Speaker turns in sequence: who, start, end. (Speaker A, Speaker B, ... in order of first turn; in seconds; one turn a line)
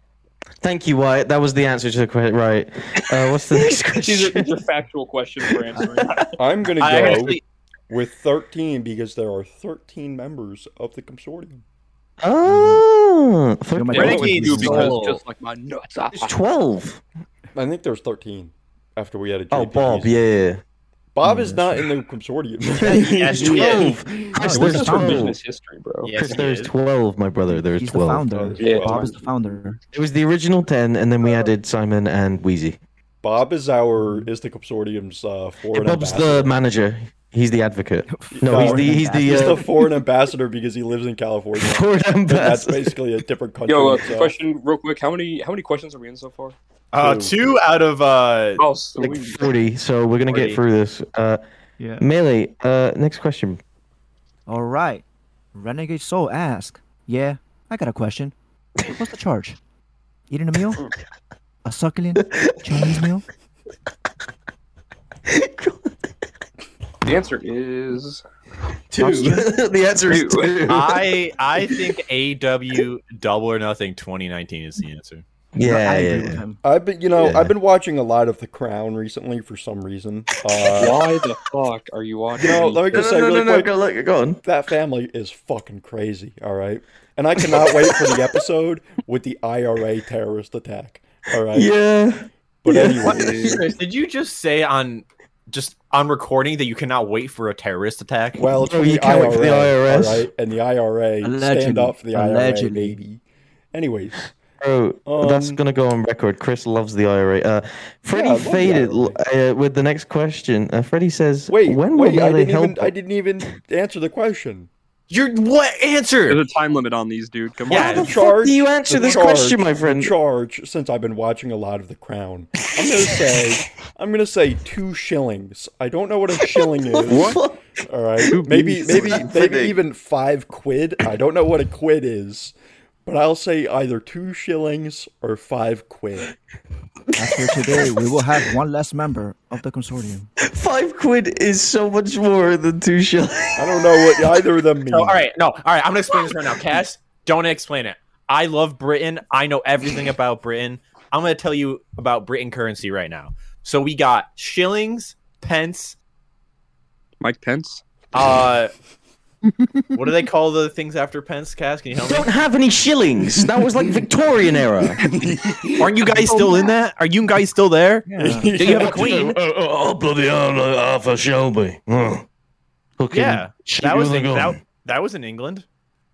Speaker A: 0.6-4.5
Speaker B: 3.4-6.3
Speaker A: 5.6-6.1
Speaker C: 6.3-11.6
Speaker D: 6.8-7.4
Speaker A: 12.2-14.7
Speaker E: 12.4-12.8
Speaker E: 13.7-15.0
Speaker B: 13.9-16.3
Speaker D: 13.9-15.2
Speaker A: 16.1-17.0
Speaker C: 17.5-20.2
Speaker A: 19.5-20.6
Speaker C: 21.1-24.6
Speaker E: 21.2-21.7
Speaker E: 22.8-23.8
Speaker D: 23.1-24.0
Speaker A: 23.3-25.4
Speaker E: 24.4-25.3
Speaker B: 24.4-26.4
Speaker D: 26.0-26.7
Speaker A: 26.1-28.2
Speaker E: 27.5-29.8
Speaker C: 28.3-29.2
Speaker B: 28.6-29.1
Speaker A: 29.9-32.8
Speaker C: 33.2-36.5
Speaker E: 34.0-34.3
Speaker A: 35.7-39.8
Speaker E: 38.1-39.6
Speaker C: 38.3-44.4
Speaker A: 41.6-43.0
Speaker B: 43.7-46.5
Speaker D: 46.9-48.6
Speaker C: 47.0-47.3
Speaker B: 48.6-49.5
Speaker A: 49.0-51.4
Speaker D: 50.3-50.6
Speaker E: 51.8-52.0
Speaker A: 52.0-53.6
Speaker E: 54.5-59.6
Speaker E: 60.3-60.8
Speaker E: 61.6-63.2
Speaker A: 62.2-63.0
Speaker A: 65.3-65.9
Speaker B: 67.0-68.2
Speaker A: 68.9-71.2
Speaker E: 69.0-69.5
Speaker B: 70.1-70.6
Speaker D: 70.7-75.2
Speaker A: 75.5-76.4
Speaker E: 75.6-76.6
Speaker C: 76.6-81.0
Speaker A: 77.2-77.5
Speaker B: 80.7-83.0
Speaker C: 82.3-83.7
Speaker A: 82.9-84.4
Speaker C: 84.4-91.7
Speaker A: 87.4-88.2
Speaker A: 91.5-93.6
Speaker C: 92.6-93.6
Speaker D: 93.0-98.4
Speaker B: 93.2-93.5
Speaker C: 98.4-103.2
Speaker A: 98.6-100.2
Speaker E: 101.2-103.0
Speaker C: 103.7-104.3
Speaker A: 104.6-112.9
Speaker C: 105.0-105.6
Speaker C: 108.1-109.2
Speaker C: 111.5-114.7
Speaker D: 115.1-116.4
Speaker B: 116.3-118.1
Speaker D: 117.7-118.1
Speaker A: 117.7-120.1
Speaker C: 117.7-136.3
Speaker A: 122.8-123.2
Speaker A: 126.4-129.8
Speaker B: 127.1-127.4
Speaker E: 128.5-129.2
Speaker A: 137.1-138.1
Speaker E: 137.2-140.3
Speaker A: 140.4-144.3
Speaker C: 143.6-145.2
Speaker D: 144.9-156.0
Speaker B: 157.2-157.8
Speaker D: 158.1-158.7
Speaker D: 159.9-162.3
Speaker A: 162.0-165.0
Speaker C: 165.0-165.9
Speaker D: 165.8-168.1
Speaker B: 166.2-166.6
Speaker E: 168.1-168.5
Speaker C: 168.2-169.1
Speaker D: 168.6-169.4
Speaker A: 168.6-172.2
Speaker A: 173.0-174.6
Speaker D: 173.1-175.6